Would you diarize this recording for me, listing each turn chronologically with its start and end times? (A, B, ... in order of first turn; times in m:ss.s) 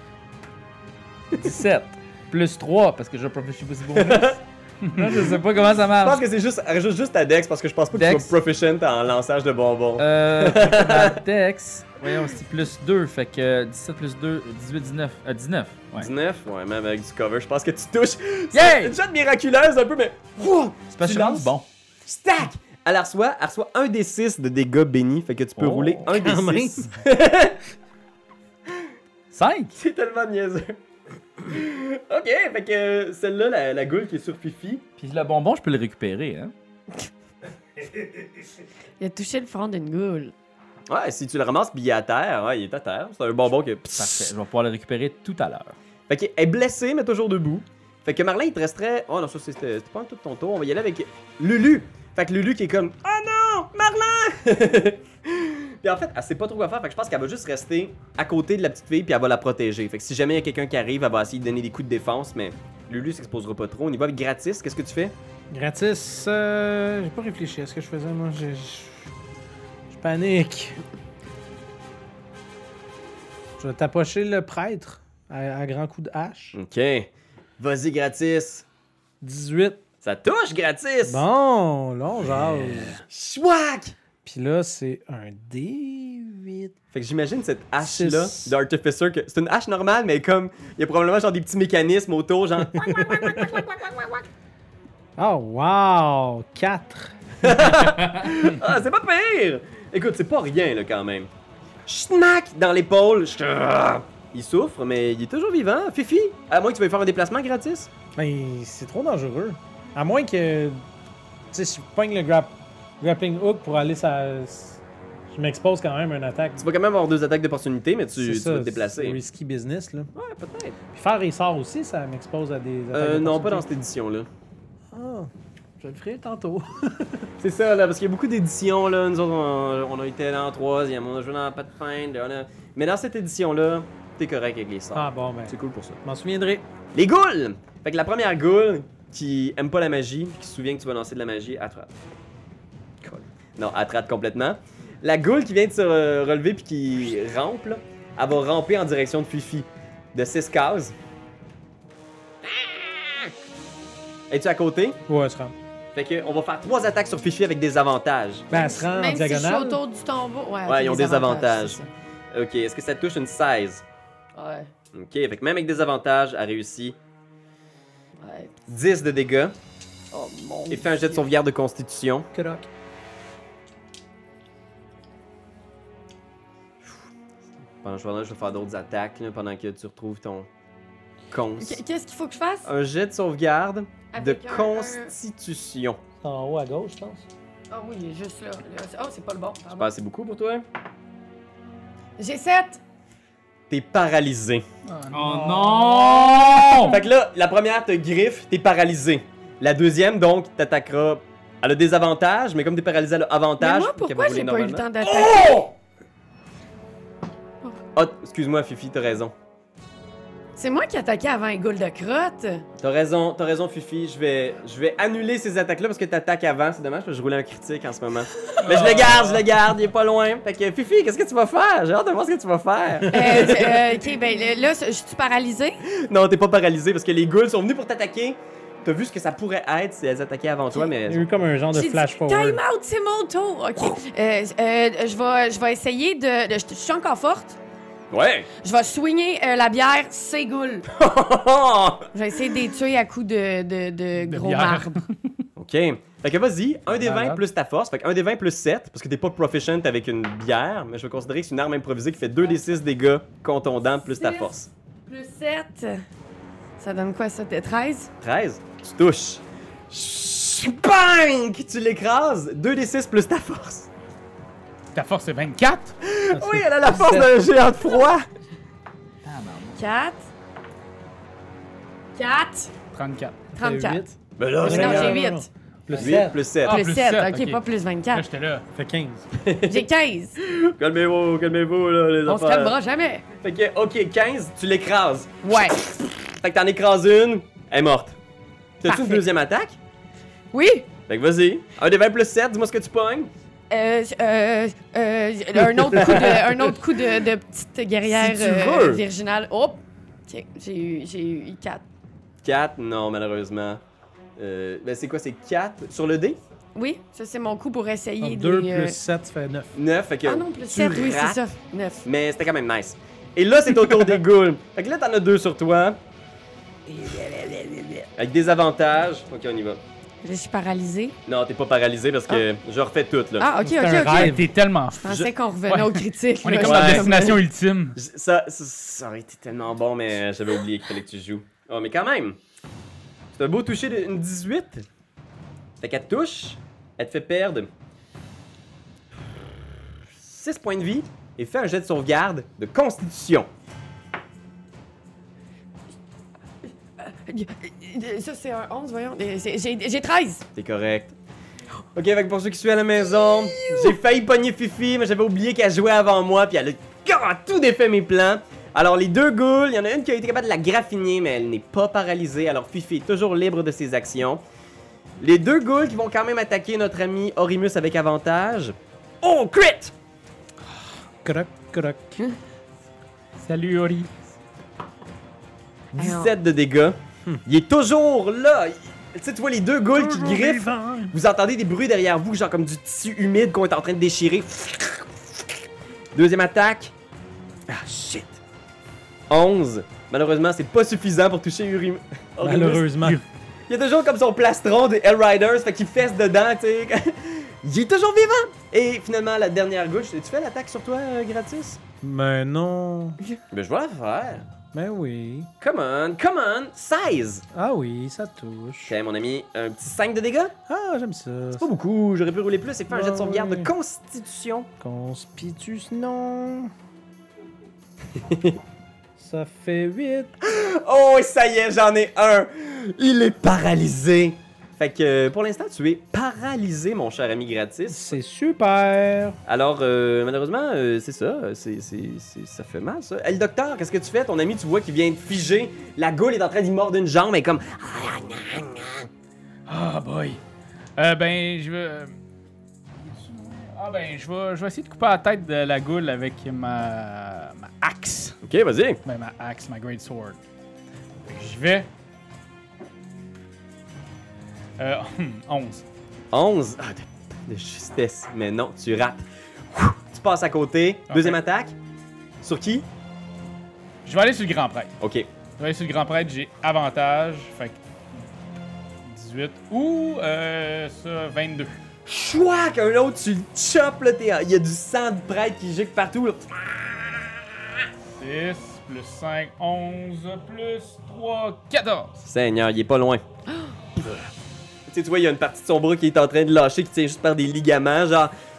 0:01.4-0:06.2 A
0:03.9-0:04.4 B
0:06.0-0:11.2 B
0:07.9-0:08.3 A
0:10.0-0:16.1 A
0:16.0-0:21.5 B
0:18.5-0:19.0 A
0:20.9-0:21.6 A
0:22.0-0:27.6 B
0:25.6-0:26.2 A
0:26.1-0:26.9 C
0:29.3-0:29.8 A
0:29.8-0:30.8 B
0:31.4-0:34.8 B
0:35.0-0:36.5 A
0:39.0-0:40.3 D
0:40.9-0:44.3 B
0:44.0-0:45.8 A
0:46.1-1:05.1 B
1:05.5-1:09.1 C
1:09.9-1:10.8 C
1:13.6-1:16.6 C
1:16.5-1:18.6 B
1:19.2-1:19.8 C
1:20.0-1:21.2 B
1:21.0-1:23.0 C
1:23.0-1:23.9 B
1:24.2-1:26.7 C
1:26.9-1:34.3 B
1:27.8-1:28.6 C
1:32.8-1:33.6 C
1:35.2-1:37.1 C
1:37.4-1:41.3 B
1:41.8-1:47.9 B
1:48.2-1:50.8 C
1:51.5-1:56.6 C
1:56.6-1:59.2 B
1:58.2-2:00.1 C
2:00.2-2:00.8 B
2:00.9-2:03.7 C
2:02.9-2:04.3 B
2:04.9-2:07.3 C
2:07.4-2:16.0 B
2:14.9-2:16.6 C
2:16.9-2:21.9 B
2:23.0-2:30.9 B
2:32.4-2:33.3 B
2:34.3-2:35.0 B
2:35.1-2:35.5 C
2:35.9-2:38.5 B
2:38.5-2:39.8 C
2:38.8-2:41.9 D
2:40.6-2:41.8 B
2:42.3-2:43.8 B
2:44.3-2:44.7 D
2:44.9-2:47.0 B
2:48.2-2:48.5 D
2:48.7-2:49.6 B
2:50.1-2:51.3 D
2:50.7-2:52.3 B
2:52.3-2:52.7 C
2:57.8-3:00.5 B
3:01.3-3:01.8 B
3:01.6-3:02.7 D
3:02.6-3:06.0 B
3:04.1-3:05.1 D
3:06.2-3:07.3 C
3:07.7-3:09.9 D
3:09.7-3:10.6 B
3:12.2-3:12.8 D
3:13.7-3:14.6 B
3:14.9-3:15.4 E
3:15.1-3:17.0 A
3:15.2-3:16.6 C
3:16.8-3:25.7 B
3:23.6-3:25.7 D
3:27.9-3:29.3 B
3:30.6-3:32.6 D
3:32.8-3:43.9 B
3:38.6-3:39.4 E
3:43.1-3:45.8 D
3:46.0-3:51.2 B
3:51.0-3:52.6 C
3:51.7-3:57.6 D
3:58.1-3:58.5 B
3:58.6-4:00.9 D
4:00.9-4:02.1 B
4:02.1-4:05.0 D
4:04.2-4:04.9 E
4:05.6-4:14.7 B
4:07.0-4:07.4 E
4:14.2-4:14.5 D
4:15.0-4:16.0 D
4:16.8-4:18.1 D
4:18.2-4:23.9 B
4:24.9-4:25.9 E
4:26.0-4:28.2 B
4:26.3-4:27.3 C
4:29.2-4:29.8 A
4:29.7-4:30.2 D
4:32.2-4:32.7 D
4:32.9-4:33.4 E
4:33.5-4:36.4 C
4:33.6-4:34.0 D
4:34.4-4:35.2 B
4:34.6-4:35.5 D
4:35.9-4:36.8 B
4:36.6-4:37.6 E
4:36.6-4:38.3 D
4:38.1-4:38.6 E
4:38.7-4:39.3 C
4:39.4-4:39.9 B
4:39.7-4:40.4 D
4:40.4-4:42.8 B
4:42.2-4:43.2 D
4:43.4-4:48.2 B
4:45.4-4:45.8 D
4:48.8-4:49.8 B
4:48.9-4:49.2 D
4:50.5-4:50.9 D
4:51.1-4:53.3 B
4:53.7-5:01.8 D
4:55.8-4:56.5 B
4:58.0-4:59.0 B
5:02.4-5:03.8 B
5:04.4-5:06.4 B
5:06.7-5:09.0 D
5:08.2-5:09.8 C
5:09.7-5:11.4 B
5:10.2-5:12.1 D
5:12.0-5:16.0 B
5:18.2-5:19.8 B
5:20.2-5:21.2 D
5:21.2-5:23.5 B
5:23.4-5:27.4 D
5:23.6-5:24.5 C
5:24.1-5:25.1 E
5:25.7-5:28.0 E
5:26.6-5:27.4 B
5:28.0-5:32.4 B
5:33.3-5:34.9 B
5:35.8-5:37.7 B
5:40.2-5:43.5 B
5:47.0-5:50.4 D
5:50.6-5:51.1 B
5:51.9-6:04.4 B
6:05.2-6:09.9 B
6:11.2-6:12.2 C
6:13.4-6:14.1 E
6:15.9-6:25.2 B
6:16.0-6:16.4 D
6:19.9-6:21.1 C
6:26.1-6:26.9 B
6:27.7-6:28.2 C
6:29.3-6:33.0 B
6:32.4-6:33.2 C
6:33.7-6:41.8 B
6:42.0-6:43.2 C
6:43.5-6:44.4 B
6:44.7-6:45.5 C
6:45.6-6:47.4 B
6:47.5-6:49.0 C
6:48.9-6:50.5 B
6:50.7-6:51.7 C
6:51.5-6:54.7 B
6:52.9-6:53.7 C
6:54.8-6:56.7 C
6:58.1-6:58.6 B
6:59.2-7:00.3 C
7:00.4-7:08.2 B
7:07.9-7:09.4 C
7:09.4-7:19.1 B
7:19.7-7:20.4 E
7:21.0-7:22.1 E
7:23.0-7:28.4 E
7:28.4-7:29.0 B
7:29.0-7:30.4 E
7:31.3-7:31.9 E
7:34.8-7:35.8 E
7:36.3-7:41.7 B
7:41.1-7:41.4 E
7:42.4-7:42.8 B
7:44.0-7:44.9 E
7:45.0-7:45.3 B
7:45.6-7:47.8 E
7:49.0-7:51.8 E
7:52.0-7:57.4 B
7:58.2-8:02.2 E
8:02.2-8:03.2 B
8:04.0-8:04.3 B
8:04.9-8:08.3 B